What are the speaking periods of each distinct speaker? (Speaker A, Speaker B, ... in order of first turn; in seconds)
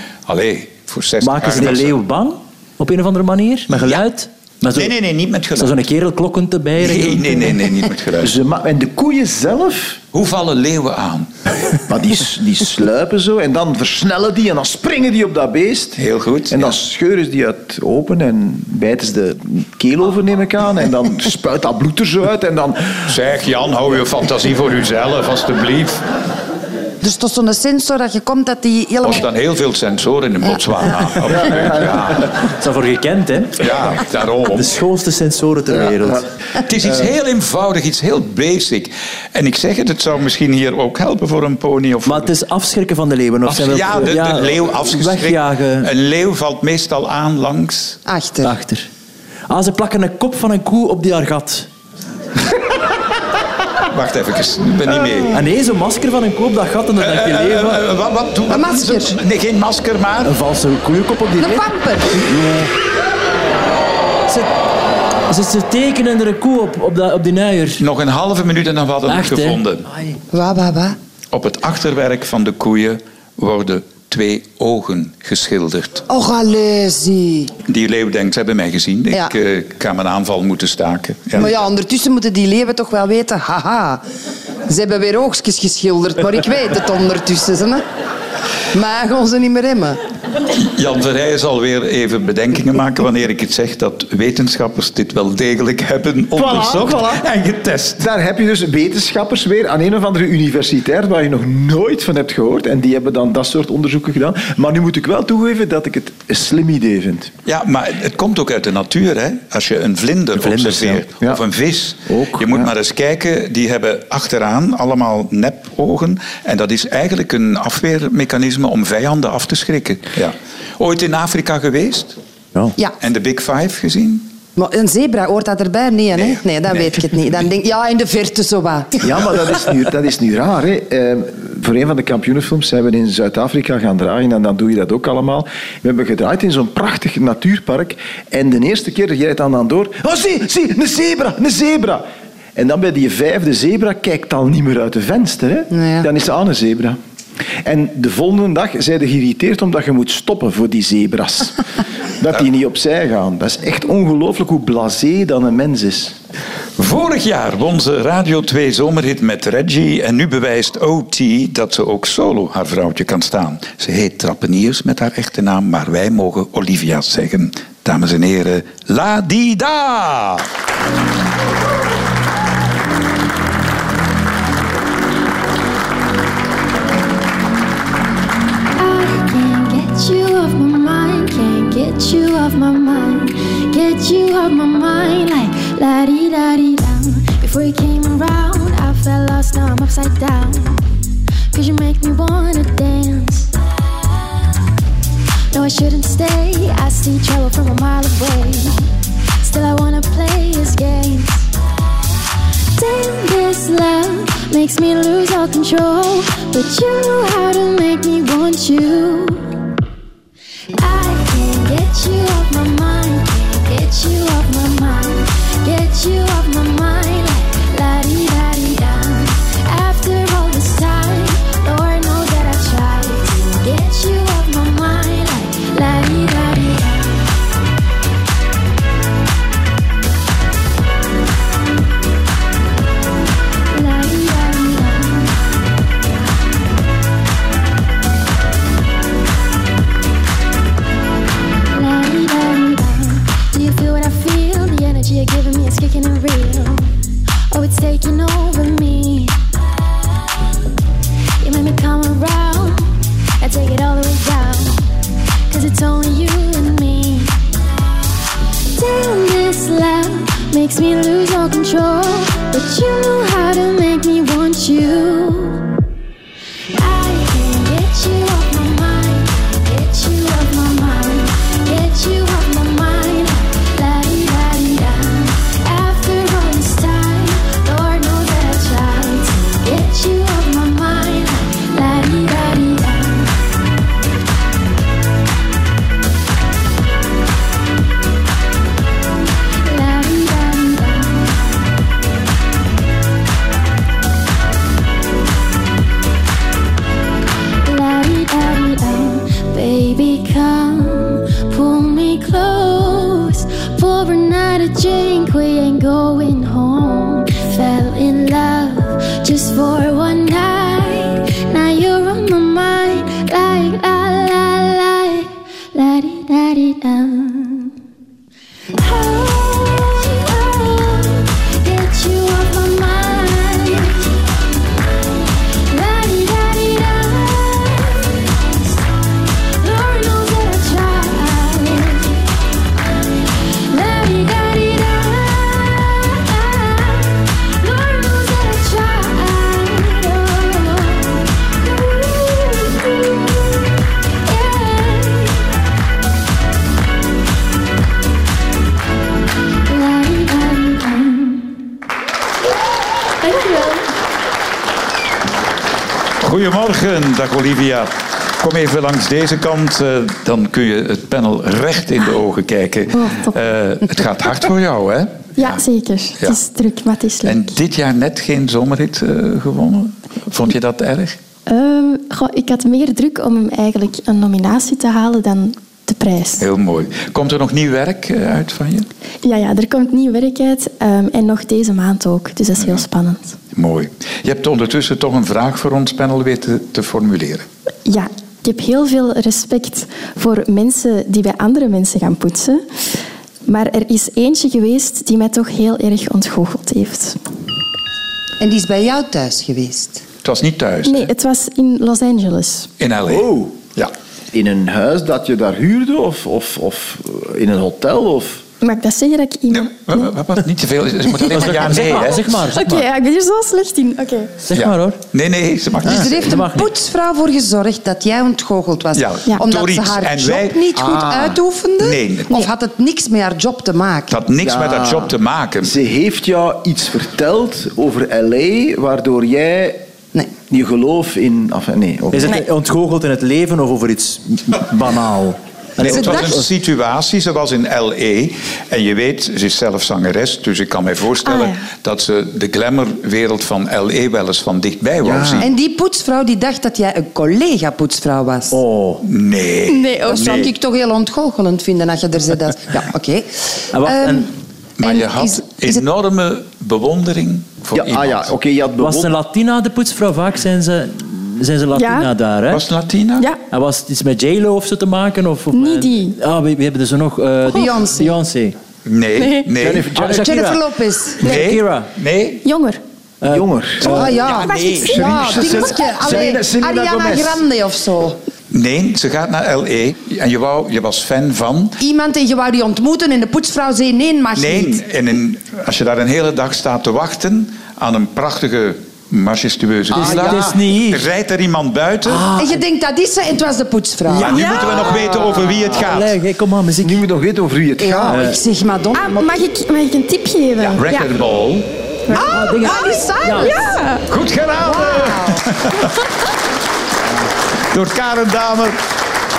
Speaker A: 0.3-1.9, 4.7-5.8, 6.8-8.3, 10.1-11.3, 16.0-16.8, 23.1-26.0, 29.0-32.4, 33.6-34.7, 36.6-42.3, 43.5-48.0, 53.9-55.4, 57.0-60.3, 67.8-69.8, 71.3-76.0, 77.7-81.5, 90.5-98.0, 107.5-122.2, 123.0-124.3, 156.8-170.4, 356.2-365.6, 367.2-371.2, 376.4-378.9, 382.6-382.8, 383.5-387.4, 400.2-401.1, 402.8-403.9, 409.5-412.4, 414.5-416.4, 418.9-421.2, 421.8-422.5, 424.1-425.7, 435.8-445.5, 449.0-450.5, 454.8-458.3, 462.5-463.3, 468.8-469.9, 471.2-472.4, 474.3-474.6, 478.5-481.8, 484.3-492.2, 494.1-496.1, 500.6-501.7, 504.1-505.9, 507.7-508.8
Speaker B: 1.2-4.9, 5.6-7.6, 32.4-33.6, 34.5-36.2, 42.0-45.9, 48.4-48.9, 49.5-51.7, 55.3-57.9, 60.2-62.7, 65.3-67.8, 69.1-70.2, 110.3-111.0, 411.2-412.9, 414.4-415.0, 415.8-416.7, 432.1-436.5, 448.5-449.0, 453.7-454.3, 458.8-462.6, 463.5-468.6, 469.9-470.6, 471.2-471.9, 473.2-474.2, 489.9-491.0, 492.0-492.6, 494.1-497.0, 498.1-498.4, 502.1-503.6
Speaker C: 8.2-10.0, 11.9-23.1, 31.3-32.1, 96.3-97.2, 98.0-107.3, 112.1-112.7, 129.0-142.0, 142.6-147.0, 147.6-151.6, 152.2-156.2, 403.1-403.5, 404.3-408.4, 420.8-421.4, 425.6-429.8, 430.5-432.4, 445.0-445.5, 457.7-459.1, 469.6-470.3, 473.3-477.4, 496.8-498.2
Speaker D: 27.0-29.2, 48.0-48.5, 58.5-59.2, 61.4-62.2, 70.3-71.0, 76.1-77.5, 81.3-84.0, 84.7-87.8, 88.7-90.0, 124.5-129.1, 145.7-146.1, 398.4-400.0, 415.8-425.1, 435.8-436.2, 445.4-448.6, 449.7-454.3, 454.8-455.8, 467.5-468.1, 470.0-471.2, 473.8-478.2, 481.8-484.8, 492.4-494.4, 497.8-499.3, 502.1-503.8, 504.6-505.5
Speaker E: 178.7-190.8, 191.5-193.5, 195.5-198.9, 199.4-201.5, 202.7-209.5, 210.8-227.3, 233.7-235.4, 241.7-246.9, 247.5-249.4, 251.4-254.9, 255.5-257.3, 258.7-265.7, 266.7-283.4, 289.6-291.3, 297.6-317.7, 318.7-324.2, 325.7-328.7, 329.6-332.2, 333.6-343.6, 344.2-345.5, 349.7-351.5, 353.2-353.9, 362.9-363.3, 365.4-367.4, 371.5-376.4, 379.2-383.3, 387.9-392.6, 393.5-397.2, 400.8-402.7, 408.6-409.6, 412.4-414.3, 441.3-441.6, 461.7-462.1, 465.5-466.2, 469.2-469.5, 471.2-471.5, 472.4-472.8, 474.4-475.1, 498.9-501.1, 502.1-504.0